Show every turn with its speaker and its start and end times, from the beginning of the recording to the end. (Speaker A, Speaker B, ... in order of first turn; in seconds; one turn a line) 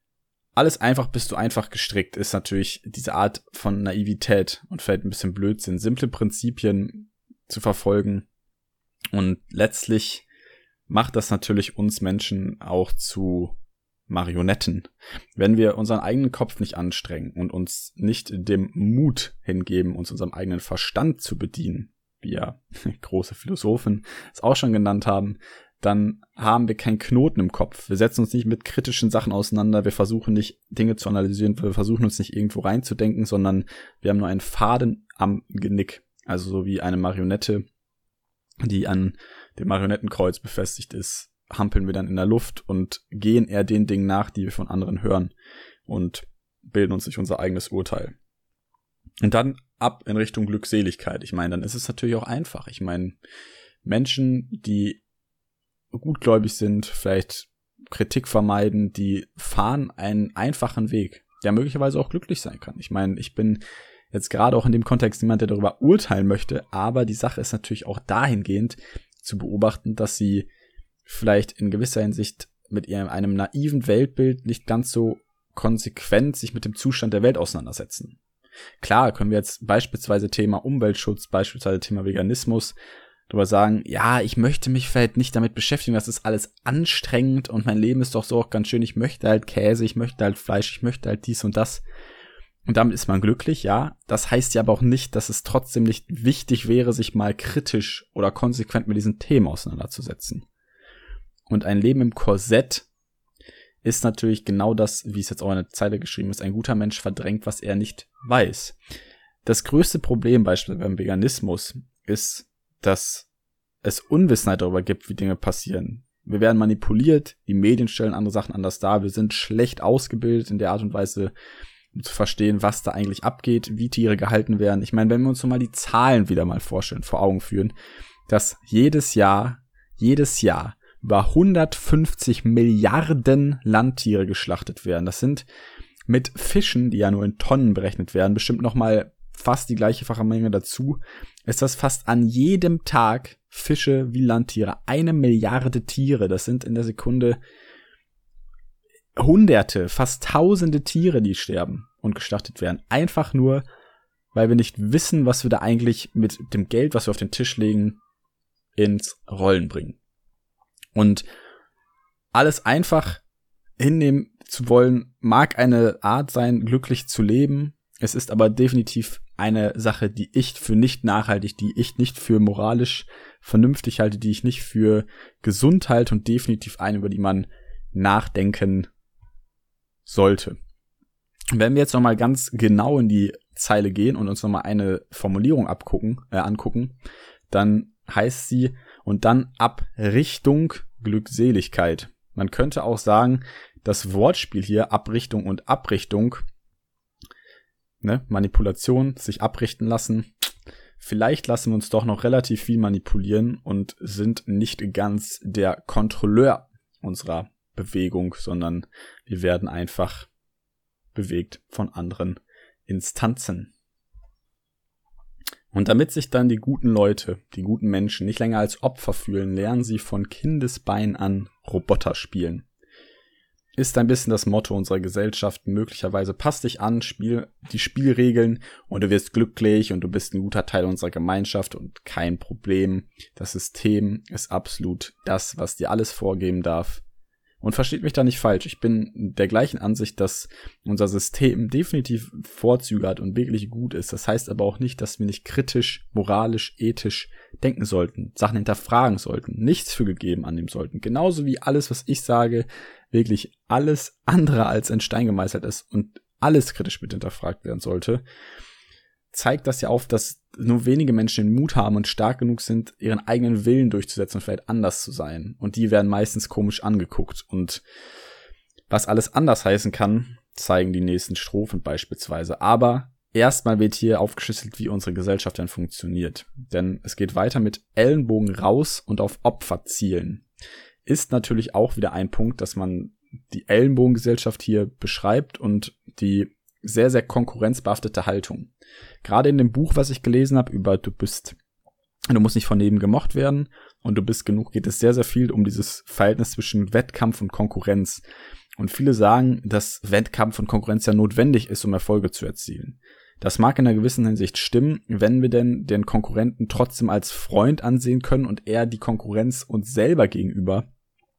Speaker A: 0.6-8.2
Speaker A: 9.1-10.2
Speaker A: 10.9-13.5
Speaker A: 14.1-37.6
Speaker A: 38.6-45.3
Speaker A: 45.9-48.1
Speaker A: 49.2-53.1
Speaker A: 53.8-55.0
Speaker A: 55.9-70.5
Speaker A: 71.0-78.2
Speaker A: 78.8-82.7
Speaker A: 83.3-91.8
Speaker A: 92.7-100.5
Speaker A: 101.5-102.8
Speaker A: 103.8-108.8
Speaker A: 109.4-113.3
Speaker A: 113.8-121.3
Speaker A: 121.9-127.7
Speaker A: 128.3-135.4
Speaker A: 136.1-147.4
Speaker A: 149.2-153.6
Speaker A: 154.3-158.0
Speaker A: 158.8-160.0
Speaker A: 160.9-161.2
Speaker A: 162.3-163.2
Speaker A: 163.8-178.9
Speaker A: 180.1-180.6
Speaker A: 181.5-186.9
Speaker A: 187.5-196.4
Speaker A: 198.0-200.3
Speaker A: 201.0-210.3
Speaker A: 211.1-213.7
Speaker A: 215.7-222.6
Speaker A: 223.8-237.0
Speaker A: 237.6-258.2
Speaker A: 259.3-267.8
Speaker A: 268.9-280.4
Speaker A: 281.1-288.7
Speaker A: 289.2-291.6
Speaker A: 292.3-298.2
Speaker A: 298.8-310.9